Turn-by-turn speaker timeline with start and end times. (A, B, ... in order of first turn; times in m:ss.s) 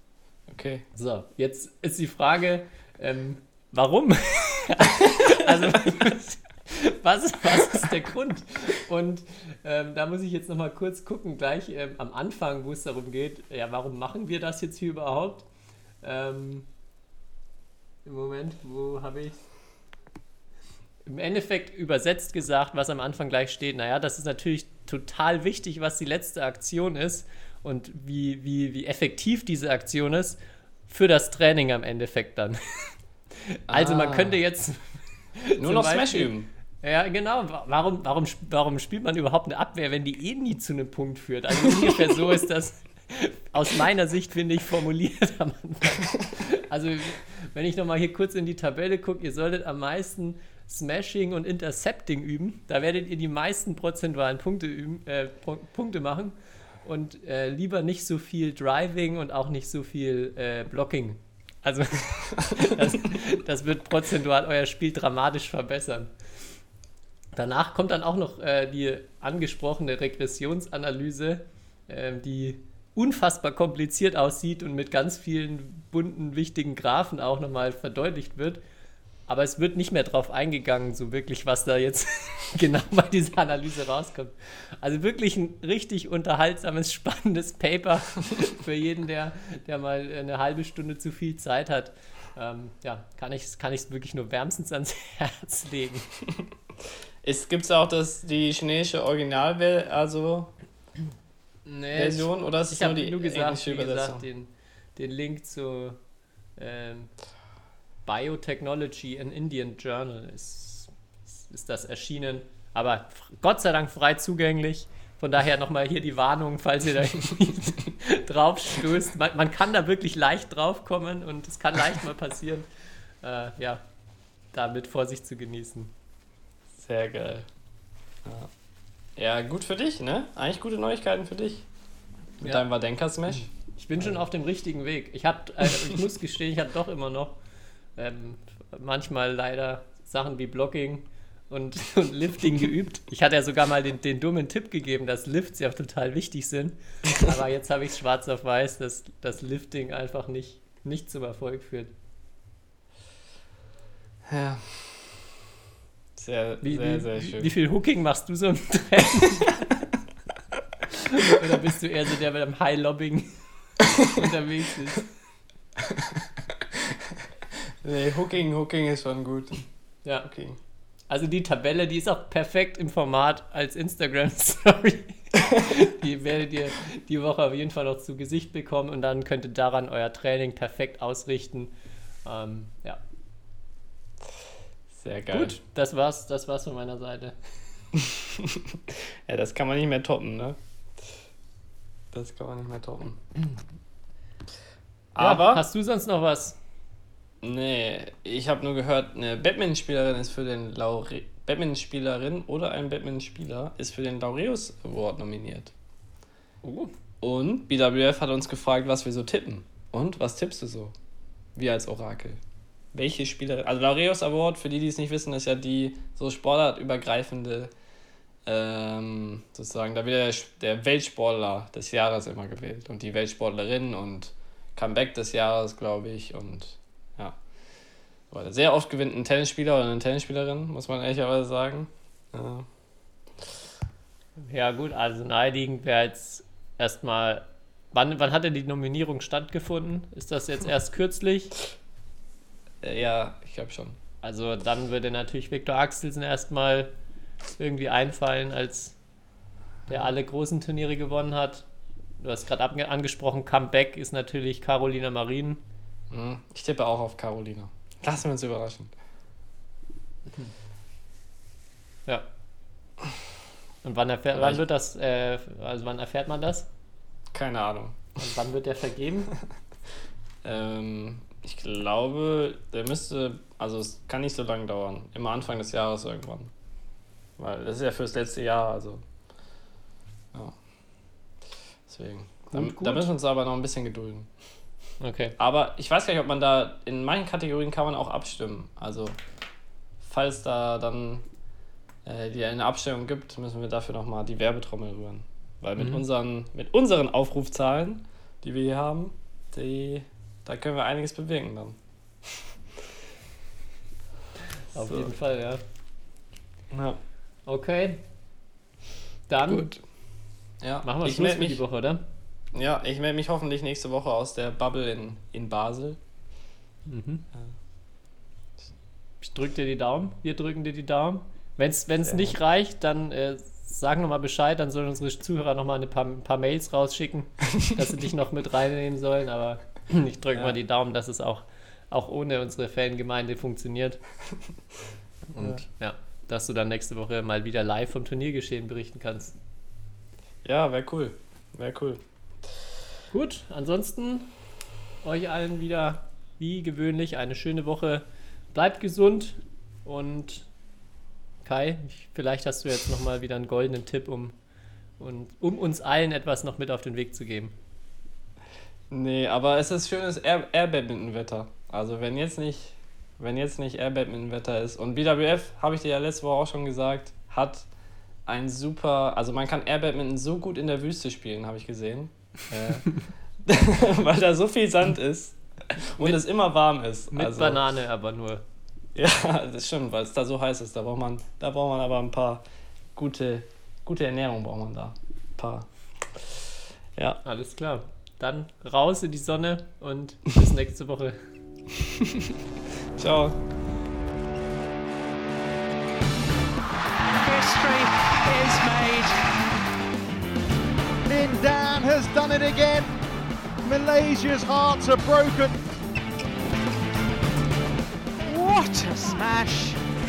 0:00.5-0:00.8 A
0:00.9-0:15.5 B
0:16.0-0:16.7 B
0:18.0-0:19.4 B
0:21.0-0:36.3 B
0:33.7-0:34.4 A
0:35.6-0:36.5 A
0:36.8-1:06.1 B
0:41.7-0:42.0 A
1:07.4-1:18.6 B
1:19.3-1:36.1 B
1:37.2-1:40.5 A
1:41.7-1:46.0 B
1:41.9-1:44.2 A
1:46.6-1:47.1 B
1:48.1-2:02.7 B
2:03.2-2:03.8 B
2:04.5-2:05.9 B
2:06.8-2:07.5 A
2:08.2-2:08.5 A
2:09.2-2:11.7 A
2:12.4-2:14.2 A
2:13.8-2:17.4 B
2:18.0-2:31.9 B
2:34.3-2:35.3 A
2:36.2-2:37.5 A
2:36.6-2:39.6 B
2:40.9-2:45.1 B
2:45.8-2:47.1 A
2:47.8-2:49.6 A
2:50.2-2:50.6 A
2:51.1-3:01.7 B
3:02.2-3:03.0 B
3:04.9-3:05.6 A
3:05.3-3:07.4 B
3:08.0-3:10.6 A
3:12.1-3:13.2 A
3:15.2-3:15.7 A
3:15.2-3:16.6 B
3:17.4-3:25.7 A
3:26.6-3:26.9 B
3:27.2-3:30.9 A
3:31.6-3:32.4 A
3:32.9-3:37.7 A
3:38.5-3:47.4 A
3:48.3-3:52.7 A
3:54.4-4:01.6 B
4:02.8-4:04.0 A
4:04.2-4:06.9 B
4:07.6-4:09.0 B
4:09.9-4:11.7 B
4:12.2-4:15.6 B
4:16.1-4:18.9 A
4:23.8-4:26.7 B
4:24.3-4:24.6 A
4:27.3-4:28.2 A
4:28.2-4:29.3 B
4:30.4-4:36.5 A
4:37.4-4:39.0 A
4:41.9-4:44.3 A
4:42.5-4:43.1 B
4:45.0-4:45.4 B
4:45.4-4:49.2 A
4:50.0-4:51.2 A
4:52.0-5:02.5 A
4:55.8-4:56.0 B
5:04.7-5:05.6 B
5:04.8-5:05.1 A
5:06.7-5:07.0 A
5:07.5-5:08.0 B
5:09.3-5:09.7 B
5:09.5-5:09.8 A
5:10.6-5:11.6 A
5:10.8-5:12.0 B
5:12.5-5:16.0 A
5:16.9-5:17.2 B
5:19.2-5:34.0 B
5:22.0-5:22.4 A
5:35.4-5:35.6 A
5:35.4-5:39.4 B
5:40.4-5:42.0 A
5:43.1-5:44.3 B
5:45.0-5:50.5 B
5:51.4-5:54.4 B
5:55.0-5:57.6 B
5:58.9-6:07.7 A
6:08.3-6:17.6 A
6:17.1-6:18.4 B
6:19.0-6:22.4 A
6:23.0-6:26.4 A
6:27.2-6:31.3 B
6:31.8-6:32.4 A
6:33.0-6:33.4 A
6:37.1-6:39.3 C
6:41.1-6:42.9 D
6:43.6-6:45.7 D
6:48.2-6:49.8 C